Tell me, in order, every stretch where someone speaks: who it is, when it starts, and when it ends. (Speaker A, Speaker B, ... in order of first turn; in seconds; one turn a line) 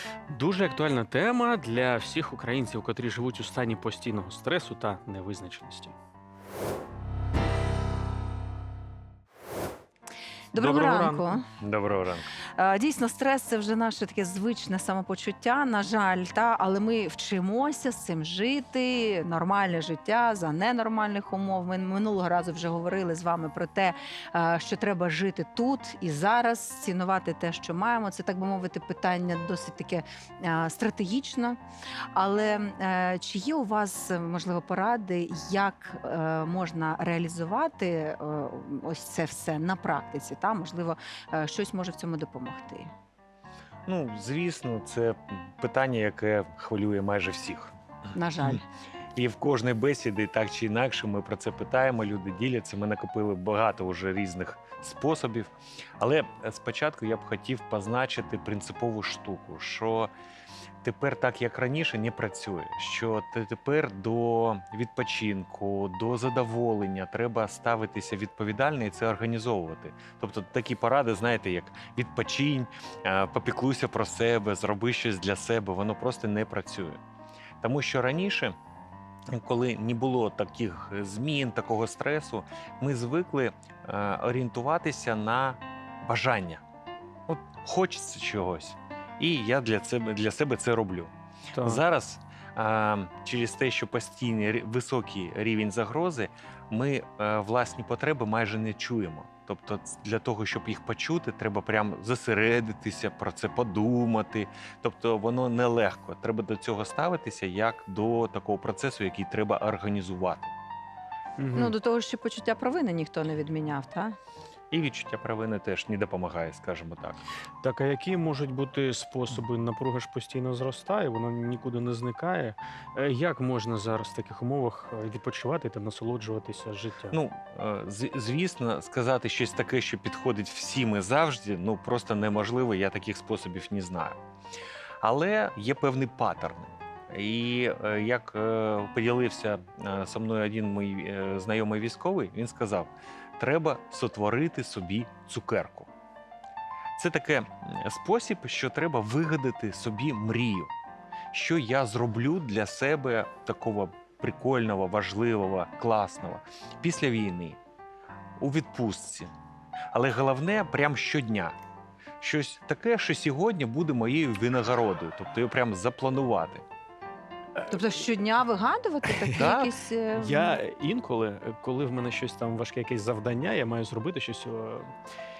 Speaker A: 0.3-5.9
Speaker B: 10.5-11.4
Speaker A: 10.6-11.4
Speaker C: 11.6-12.3
Speaker B: 12.5-31.6
Speaker B: 32.1-42.9
Speaker C: 43.9-47.7
Speaker B: 48.1-48.6
Speaker C: 49.1-60.1
Speaker C: 60.8-77.0
Speaker C: 77.6-78.5
Speaker C: 79.3-86.6
Speaker C: 87.3-110.5
Speaker A: 91.5-91.8
Speaker A: 111.4-111.7
Speaker B: 111.5-114.2
Speaker C: 114.7-117.2
Speaker A: 117.6-127.2
Speaker C: 127.1-134.2
Speaker C: 135.0-145.9
Speaker C: 147.0-150.7
Speaker C: 151.3-157.6
Speaker C: 158.4-159.3
Speaker C: 159.9-161.5
Speaker C: 162.2-166.6
Speaker B: 167.7-170.6
Speaker C: 169.4-169.7
Speaker A: 170.1-174.9